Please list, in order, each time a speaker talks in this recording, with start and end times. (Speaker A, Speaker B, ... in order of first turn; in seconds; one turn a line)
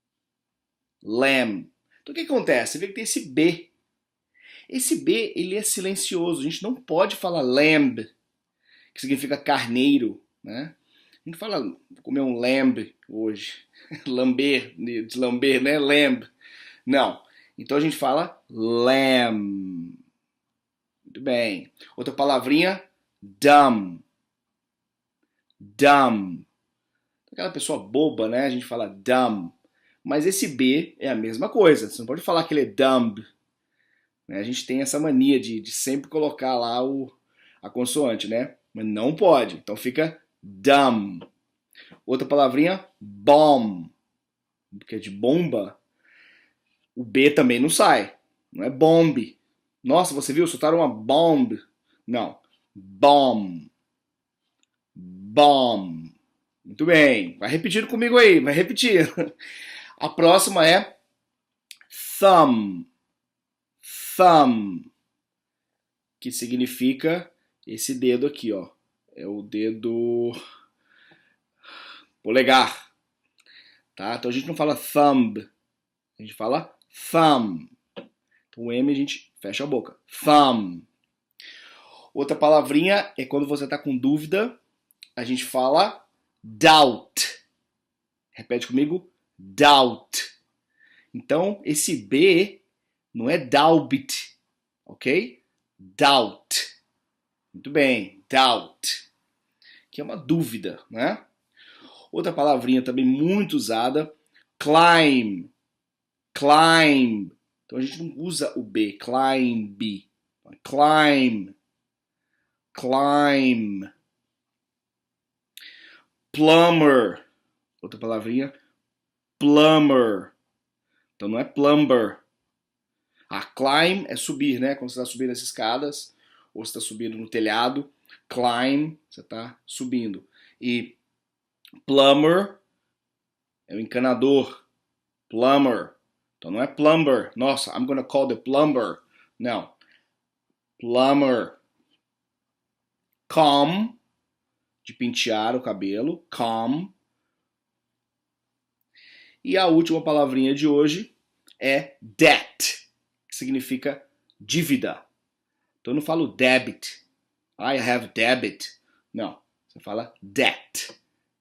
Speaker A: 1.0-3.7
Speaker A: 4.7-8.1
Speaker A: 8.9-10.7
Speaker A: 11.3-16.3
Speaker A: 16.9-19.9
Speaker A: 21.1-24.0
Speaker A: 25.6-26.5
Speaker A: 27.3-33.3
Speaker A: 34.3-41.3
Speaker A: 42.1-43.9
Speaker A: 44.7-45.8
Speaker A: 47.0-53.7
Speaker A: 55.0-56.1
Speaker A: 56.7-59.3
Speaker A: 60.0-60.9
Speaker A: 61.9-62.9
Speaker A: 63.8-64.9
Speaker A: 66.2-70.4
Speaker A: 72.2-72.8
Speaker A: 74.0-75.5
Speaker A: 76.2-77.7
Speaker A: 78.5-80.9
Speaker A: 82.1-84.6
Speaker A: 85.2-87.4
Speaker A: 88.3-90.3
Speaker A: 91.1-92.6
Speaker A: 93.1-94.3
Speaker A: 94.9-96.7
Speaker A: 97.5-99.0
Speaker A: 99.9-101.2
Speaker A: 102.1-105.5
Speaker A: 106.3-111.5
Speaker A: 112.7-113.9
Speaker A: 116.3-117.2
Speaker A: 117.8-118.5
Speaker A: 119.4-120.3
Speaker A: 121.2-122.2
Speaker A: 123.3-131.0
Speaker A: 131.8-132.6
Speaker A: 133.7-134.5
Speaker A: 135.3-139.7
Speaker A: 140.8-141.6
Speaker A: 143.3-144.0
Speaker A: 144.8-146.9
Speaker A: 149.4-155.0
Speaker A: 155.8-157.0
Speaker A: 157.6-160.9